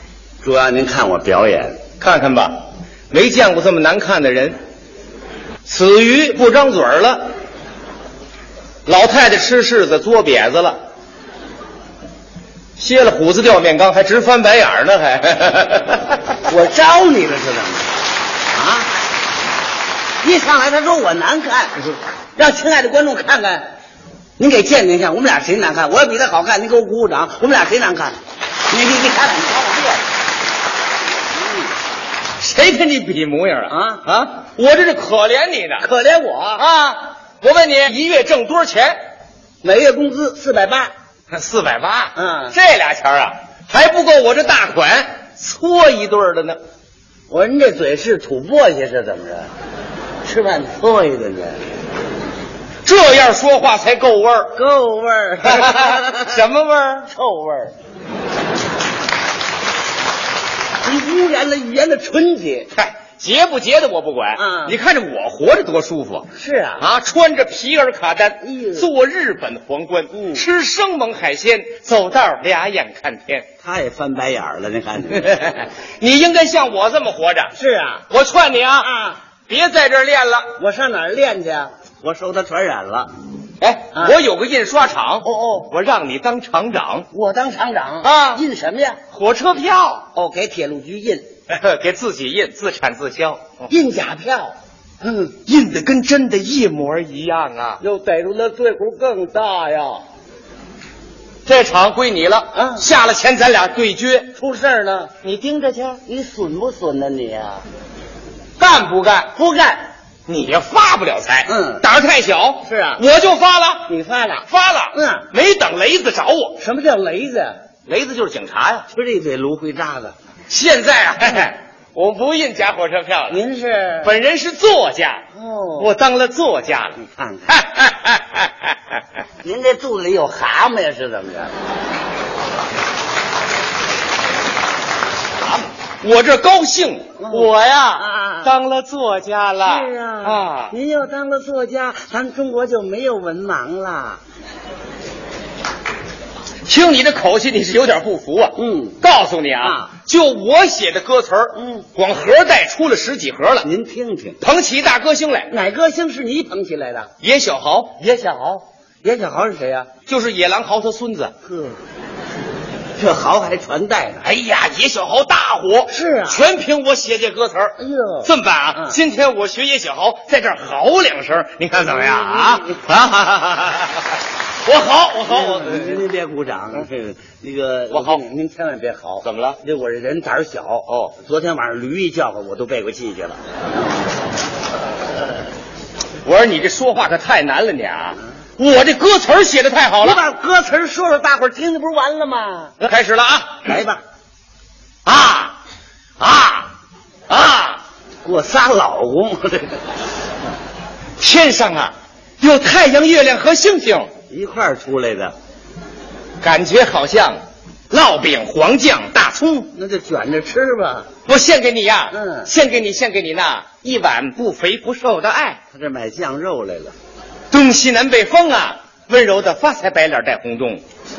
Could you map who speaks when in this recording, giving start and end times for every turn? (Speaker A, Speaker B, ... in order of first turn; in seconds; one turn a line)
Speaker A: 0.4-1.8
Speaker B: 2.0-4.5
Speaker B: 5.7-7.3
Speaker B: 8.8-10.8
Speaker B: 12.8-16.2
Speaker A: 16.4-17.9
Speaker A: 18.5-18.9
Speaker A: 20.2-23.6
Speaker A: 24.4-28.2
Speaker A: 28.7-30.0
Speaker A: 31.3-31.7
Speaker B: 32.4-35.9
Speaker A: 33.7-34.0
Speaker A: 35.8-36.6
Speaker B: 36.5-39.0
Speaker A: 39.6-40.9
Speaker B: 41.3-46.6
Speaker A: 42.1-42.5
Speaker A: 47.3-49.5
Speaker A: 50.2-51.6
Speaker B: 52.8-54.5
Speaker A: 54.5-56.4
Speaker B: 55.4-57.1
Speaker A: 57.1-57.7
Speaker A: 60.8-62.7
Speaker B: 62.7-66.3
Speaker A: 64.3-64.8
Speaker A: 66.3-66.8
Speaker B: 66.8-73.5
Speaker A: 68.4-68.9
Speaker A: 70.1-70.5
Speaker A: 73.6-75.3
Speaker B: 75.1-77.5
Speaker A: 77.5-78.0
Speaker B: 78.1-78.9
Speaker A: 78.8-79.2
Speaker B: 79.5-80.5
Speaker A: 80.5-83.1
Speaker B: 83.6-87.1
Speaker A: 85.2-85.7
Speaker A: 87.1-89.0
Speaker B: 88.0-88.4
Speaker B: 89.1-90.0
Speaker A: 90.1-91.2
Speaker B: 91.5-93.7
Speaker A: 93.7-95.4
Speaker B: 95.4-97.8
Speaker A: 97.8-100.0
Speaker B: 101.4-104.3
Speaker A: 102.5-102.9
Speaker A: 104.3-105.1
Speaker B: 105.2-106.0
Speaker A: 106.0-107.6
Speaker B: 108.6-109.3
Speaker A: 109.3-109.8
Speaker B: 110.3-113.9
Speaker A: 111.5-111.8
Speaker A: 112.6-113.0
Speaker A: 113.9-115.3
Speaker B: 114.5-116.6
Speaker A: 116.6-117.6
Speaker B: 117.8-118.8
Speaker A: 118.9-120.1
Speaker B: 120.5-123.4
Speaker A: 123.3-124.1
Speaker B: 124.0-125.2
Speaker A: 125.3-125.9
Speaker B: 125.8-127.0
Speaker A: 127.0-127.6
Speaker B: 127.5-129.0
Speaker A: 129.4-131.5
Speaker B: 135.4-140.7
Speaker A: 137.2-138.5
Speaker A: 139.6-144.2
Speaker B: 146.7-153.7
Speaker A: 148.6-149.0
Speaker A: 149.6-149.9
Speaker A: 151.5-151.9
Speaker A: 153.6-154.4
Speaker B: 154.4-155.5
Speaker A: 155.5-157.1
Speaker B: 157.2-158.0
Speaker A: 158.0-160.0
Speaker B: 160.0-161.3
Speaker A: 161.4-161.8
Speaker A: 163.0-164.2
Speaker B: 164.2-174.0
Speaker A: 165.9-166.4
Speaker A: 167.8-169.0
Speaker A: 171.9-172.8
Speaker B: 174.6-176.0
Speaker A: 175.2-183.4
Speaker B: 177.9-178.2
Speaker B: 179.2-179.6
Speaker B: 180.9-181.1
Speaker B: 186.2-190.2
Speaker A: 190.0-192.8
Speaker B: 192.8-193.7
Speaker A: 193.7-194.0
Speaker B: 195.1-195.6
Speaker B: 196.2-196.7
Speaker B: 197.3-197.8
Speaker A: 198.2-199.8
Speaker B: 201.2-204.1
Speaker A: 204.3-205.3
Speaker B: 206.4-209.7
Speaker A: 209.7-211.1
Speaker B: 211.2-215.6
Speaker A: 212.1-212.5
Speaker A: 215.7-216.9
Speaker B: 217.5-220.8